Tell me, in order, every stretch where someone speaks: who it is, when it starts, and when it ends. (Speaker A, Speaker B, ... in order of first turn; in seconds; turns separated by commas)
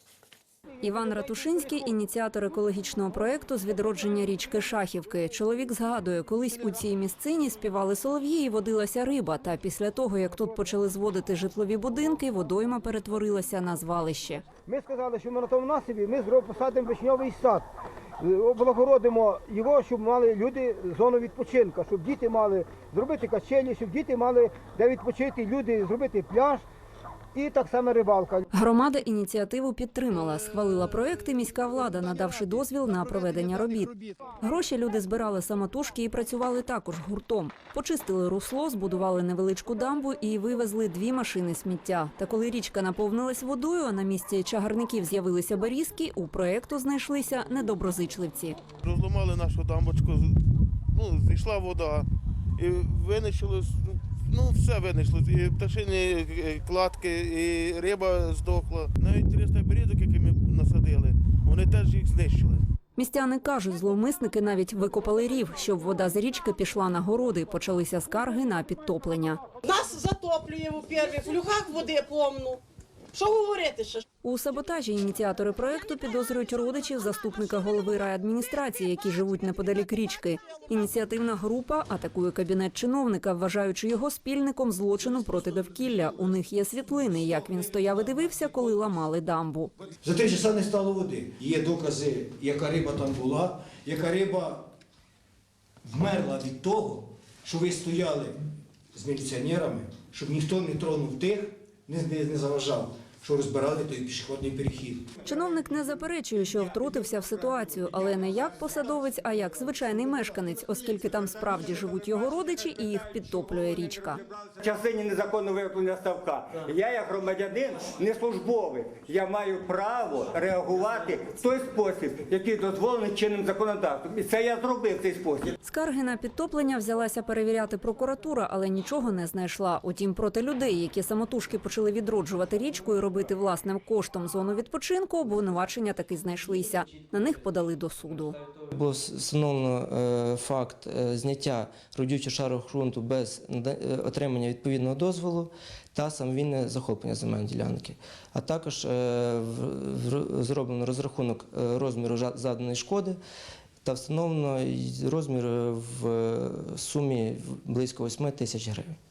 Speaker A: 0.8-14.4, Speaker B: 14.7-17.7, Speaker B: 18.2-26.6, Speaker B: 27.3-28.4, Speaker A: 28.5-48.6, Speaker C: 48.8-50.4, Speaker C: 50.9-52.0, Speaker C: 52.6-62.6, Speaker A: 63.0-69.4, Speaker D: 69.6-72.6, Speaker D: 73.1-74.0, Speaker A: 74.2-89.7, Speaker E: 90.0-94.7, Speaker E: 95.8-98.4, Speaker E: 98.9-105.1, Speaker A: 105.2-114.2, Speaker F: 114.5-125.5, Speaker A: 125.6-138.4, Speaker G: 138.7-153.2, Speaker G: 153.8-158.9